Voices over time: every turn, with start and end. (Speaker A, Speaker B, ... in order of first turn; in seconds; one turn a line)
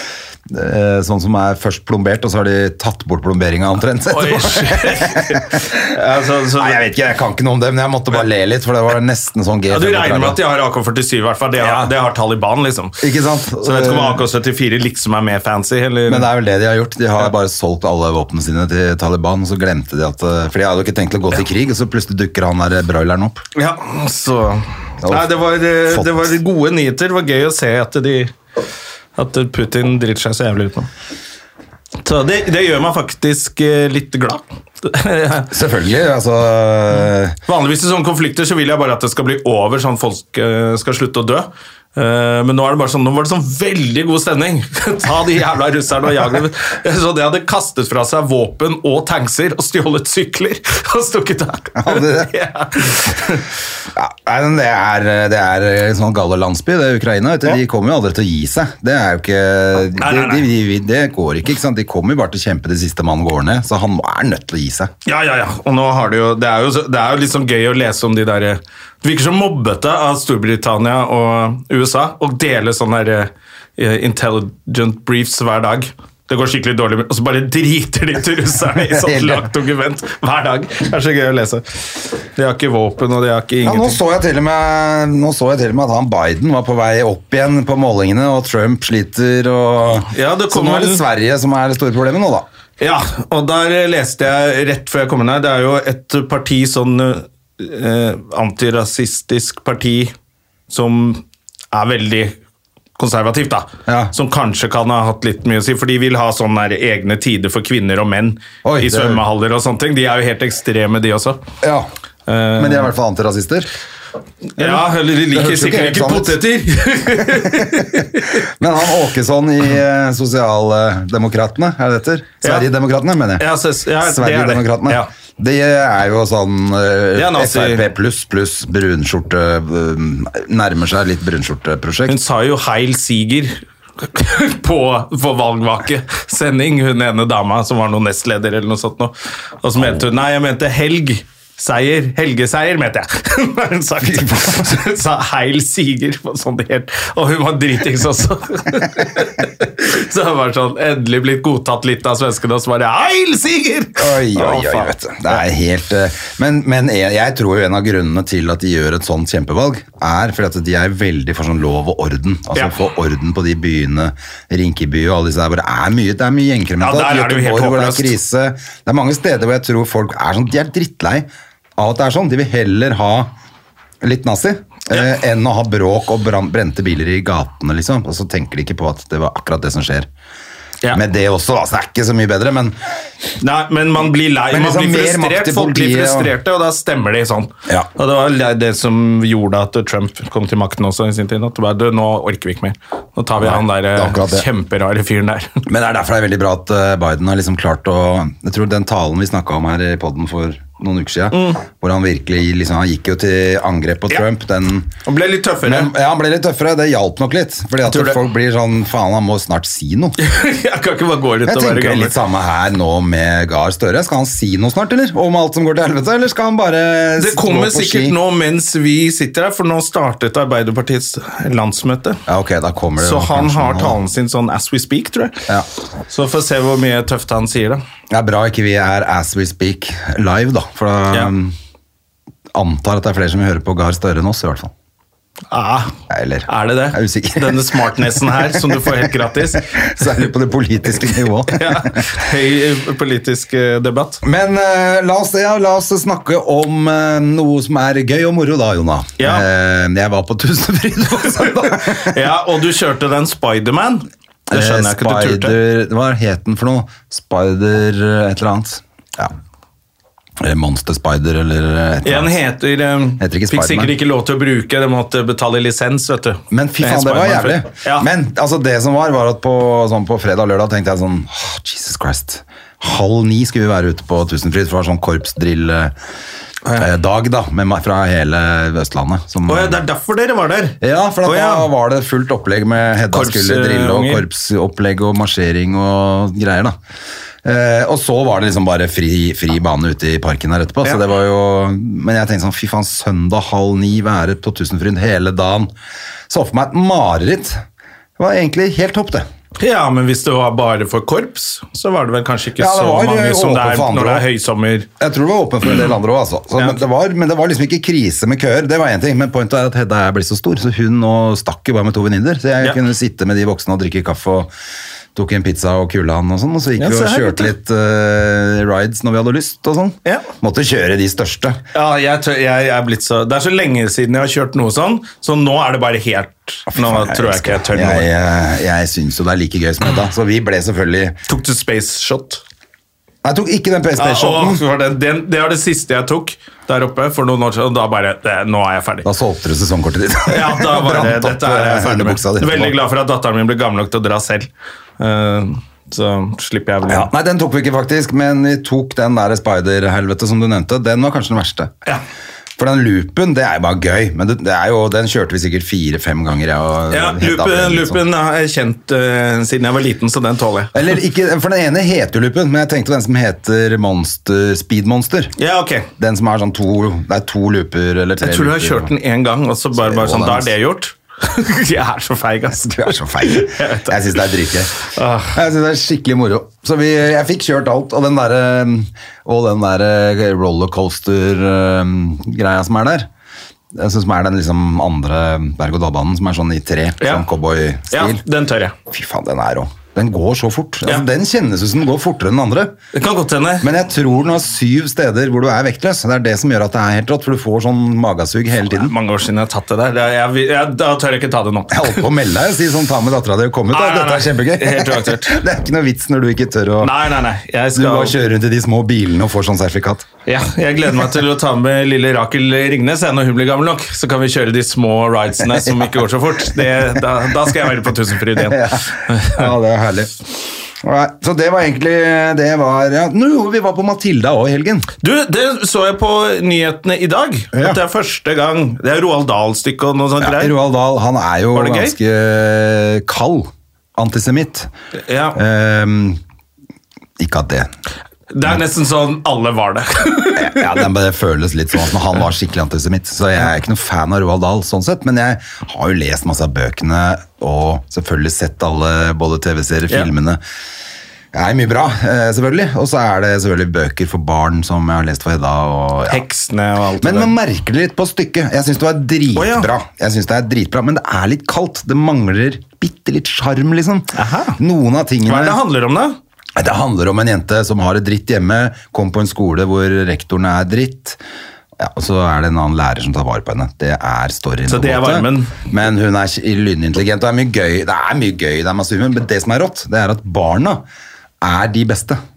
Speaker A: 0.5-5.9
Speaker B: 4.1-6.8
Speaker A: 6.5-10.4
Speaker B: 9.7-12.9
Speaker A: 11.6-11.9
Speaker A: 13.0-14.2
Speaker B: 13.6-16.3
Speaker A: 16.1-23.4
Speaker B: 23.5-28.3
Speaker A: 25.0-25.4
Speaker A: 25.9-26.3
Speaker B: 29.1-30.9
Speaker B: 32.0-35.5
Speaker A: 35.5-37.4
Speaker B: 37.5-53.5
Speaker A: 51.8-52.3
Speaker A: 53.9-64.9
Speaker B: 60.0-60.5
Speaker B: 65.0-84.0
Speaker A: 78.9-79.5
Speaker A: 83.6-92.5
Speaker B: 90.1-91.0
Speaker B: 92.8-100.1
Speaker B: 100.7-102.3
Speaker B: 103.0-111.4
Speaker A: 103.9-104.1
Speaker A: 108.6-109.2
Speaker A: 111.6-111.9
Speaker B: 112.3-112.9
Speaker A: 112.5-113.7
Speaker B: 114.5-118.4
Speaker A: 114.6-116.4
Speaker A: 117.2-123.5
Speaker B: 122.4-122.7
Speaker B: 123.4-125.1
Speaker A: 124.0-132.2
Speaker B: 127.1-127.8
Speaker B: 132.1-155.4
Speaker A: 139.8-140.0
Speaker A: 144.0-144.8
Speaker A: 154.0-171.2
Speaker B: 162.5-162.8
Speaker B: 166.8-168.1
Speaker A: 171.8-173.3
Speaker A: 174.0-180.1
Speaker A: 180.9-182.8
Speaker B: 183.4-195.6
Speaker A: 184.5-186.3
Speaker A: 193.4-194.5
Speaker A: 195.7-204.9
Speaker B: 201.3-201.6
Speaker B: 205.0-205.9
Speaker A: 205.6-210.2
Speaker B: 207.8-208.2
Speaker B: 210.2-212.1
Speaker A: 211.4-218.2
Speaker B: 217.2-222.2
Speaker A: 222.3-224.0
Speaker B: 223.0-225.4
Speaker B: 226.1-227.8
Speaker A: 228.1-231.5
Speaker A: 232.5-234.7
Speaker B: 235.5-235.9
Speaker A: 236.1-242.1
Speaker B: 236.5-240.3
Speaker B: 241.0-244.2
Speaker A: 244.2-252.2
Speaker B: 249.2-249.5
Speaker B: 251.4-255.5
Speaker A: 254.5-259.3
Speaker A: 260.4-262.3
Speaker B: 262.0-268.1
Speaker A: 263.2-263.9
Speaker A: 266.5-275.9
Speaker A: 276.8-279.8
Speaker B: 279.5-281.7
Speaker A: 280.8-286.7
Speaker B: 283.1-284.2
Speaker A: 287.4-295.7
Speaker A: 296.3-297.6
Speaker A: 298.2-299.3
Speaker B: 299.6-304.9
Speaker A: 302.6-304.2
Speaker A: 305.0-314.5
Speaker A: 315.1-321.6
Speaker B: 316.8-317.5
Speaker B: 321.7-328.1
Speaker A: 326.7-331.2
Speaker B: 331.3-332.4
Speaker A: 333.2-334.6
Speaker B: 334.0-339.1
Speaker A: 339.0-342.8
Speaker B: 340.3-344.5
Speaker B: 345.0-347.1
Speaker A: 346.9-351.7
Speaker A: 352.6-358.0
Speaker B: 356.9-360.8
Speaker A: 360.7-365.3
Speaker B: 365.4-365.9
Speaker A: 366.0-368.9
Speaker B: 368.2-374.2
Speaker A: 369.7-370.5
Speaker A: 372.5-383.1
Speaker B: 374.8-375.4
Speaker A: 383.7-388.2
Speaker B: 387.0-387.2
Speaker B: 387.9-388.7
Speaker A: 388.9-392.8
Speaker B: 392.9-393.7
Speaker A: 393.6-398.9
Speaker B: 398.6-402.1
Speaker A: 401.7-406.9
Speaker B: 403.7-405.4
Speaker B: 406.8-408.1
Speaker A: 407.7-410.1
Speaker B: 410.2-419.5
Speaker A: 415.4-416.0
Speaker A: 416.6-417.7
Speaker A: 418.3-420.1
Speaker A: 420.8-424.9
Speaker B: 425.0-430.5
Speaker A: 427.5-427.8
Speaker A: 430.2-434.7
Speaker B: 431.5-431.9
Speaker B: 435.1-435.4
Speaker A: 435.3-436.2
Speaker A: 437.2-437.7
Speaker B: 438.3-440.8
Speaker A: 440.4-450.4
Speaker A: 451.3-456.2
Speaker B: 456.1-457.3
Speaker A: 457.0-465.6
Speaker B: 459.4-459.7
Speaker B: 464.1-464.6
Speaker B: 465.2-466.2
Speaker A: 466.6-471.2
Speaker A: 471.8-480.8
Speaker B: 474.7-475.6
Speaker A: 481.4-482.2